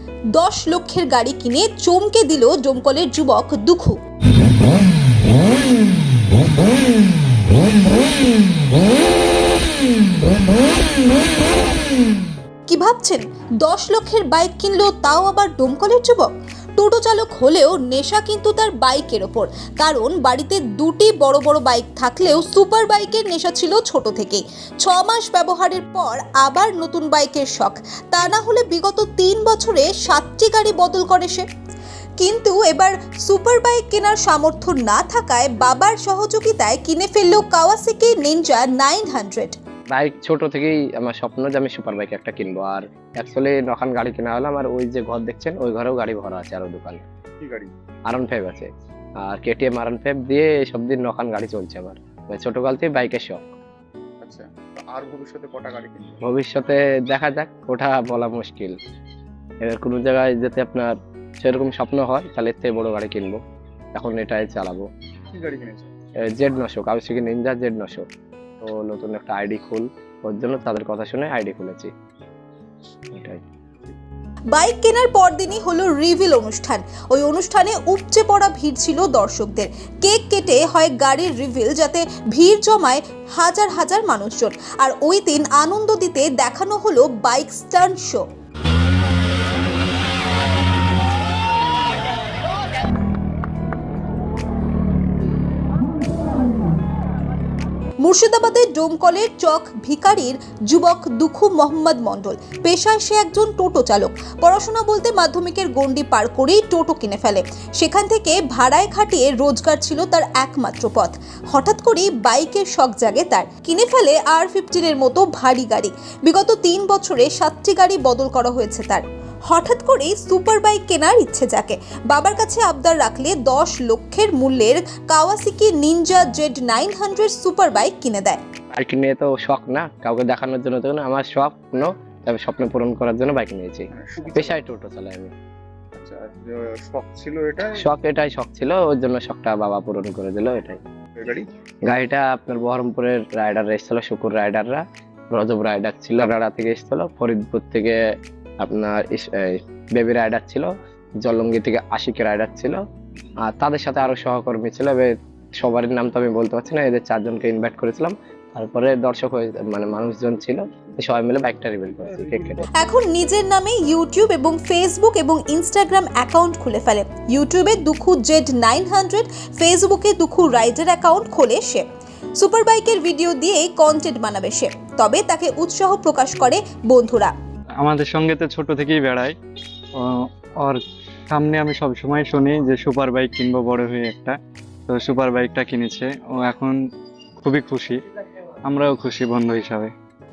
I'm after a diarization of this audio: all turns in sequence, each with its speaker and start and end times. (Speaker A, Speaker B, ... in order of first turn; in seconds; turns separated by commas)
Speaker A: 0.4-4.0, Speaker A: 12.7-31.4, Speaker A: 32.2-39.6, Speaker B: 39.9-47.0, Speaker C: 47.4-47.7, Speaker B: 48.1-48.7, Speaker B: 49.2-53.4, Speaker C: 54.2-56.2, Speaker B: 56.2-58.8, Speaker B: 59.6-63.4, Speaker B: 64.0-64.9, Speaker C: 65.3-65.9, Speaker B: 66.2-68.0, Speaker B: 68.6-71.9, Speaker B: 73.1-73.4, Speaker A: 74.5-88.2, Speaker A: 98.0-128.4, Speaker B: 128.8-135.3, Speaker C: 133.9-134.6, Speaker C: 135.9-137.8, Speaker B: 137.8-140.8, Speaker C: 141.2-141.5, Speaker B: 141.9-144.8, Speaker B: 145.3-148.0, Speaker B: 148.6-150.7, Speaker B: 151.2-152.8, Speaker B: 153.4-162.7, Speaker C: 162.1-162.7, Speaker A: 162.8-171.9, Speaker A: 172.4-177.3, Speaker D: 177.8-179.3, Speaker D: 180.0-180.8, Speaker D: 181.3-184.4, Speaker D: 184.9-186.8, Speaker D: 187.4-188.0, Speaker D: 188.7-189.9